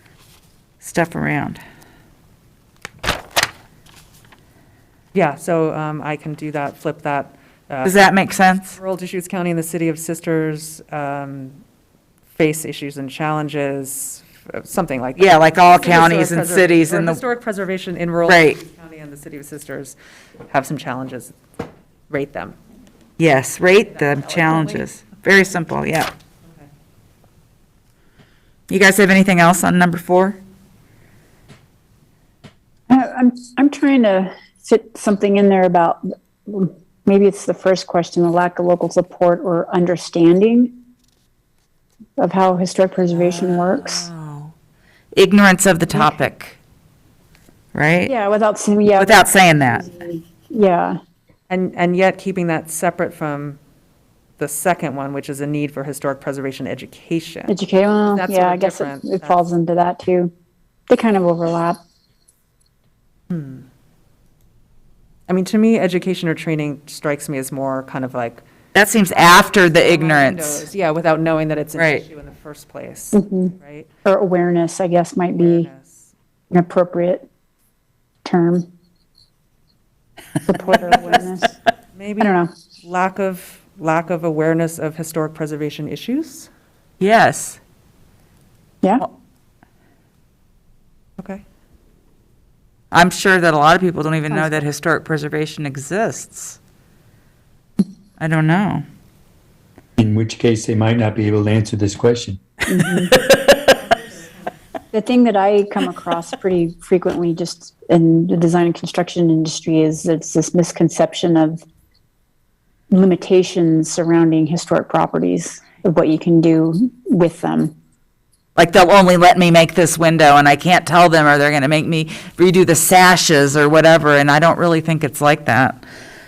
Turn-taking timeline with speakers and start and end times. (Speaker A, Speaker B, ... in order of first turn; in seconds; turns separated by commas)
Speaker A: 0.8-1.6, Speaker B: 5.1-8.1, Speaker A: 7.8-8.8, Speaker B: 8.7-11.6, Speaker B: 12.3-19.9, Speaker A: 15.2-17.2, Speaker A: 18.3-18.6, Speaker B: 20.5-21.3, Speaker B: 22.1-22.6, Speaker A: 23.2-26.1, Speaker B: 23.9-24.9, Speaker A: 28.7-30.4, Speaker C: 32.9-40.7, Speaker C: 42.2-44.0, Speaker A: 43.1-44.5, Speaker A: 45.1-46.6, Speaker A: 47.7-48.1, Speaker C: 48.0-51.0, Speaker A: 49.0-49.9, Speaker B: 51.5-53.6, Speaker B: 54.4-57.5, Speaker C: 57.5-60.3, Speaker B: 58.1-59.4, Speaker C: 60.9-61.8, Speaker B: 63.3-63.6, Speaker B: 65.3-68.4, Speaker A: 68.7-70.6, Speaker B: 69.1-73.9, Speaker A: 71.8-72.0, Speaker C: 73.1-73.5, Speaker C: 74.0-75.7, Speaker B: 75.3-76.1, Speaker C: 76.5-77.2, Speaker C: 78.2-78.6, Speaker C: 80.5-81.5, Speaker B: 80.5-81.4, Speaker B: 81.9-86.5, Speaker C: 82.2-82.5, Speaker A: 87.0-87.6, Speaker B: 91.2-91.4, Speaker A: 92.9-96.6, Speaker C: 94.3-94.6, Speaker A: 98.2-98.8, Speaker D: 100.0-102.4, Speaker C: 102.7-103.1, Speaker B: 103.1-104.5, Speaker C: 104.9-111.6, Speaker C: 112.9-117.7, Speaker A: 118.5-125.8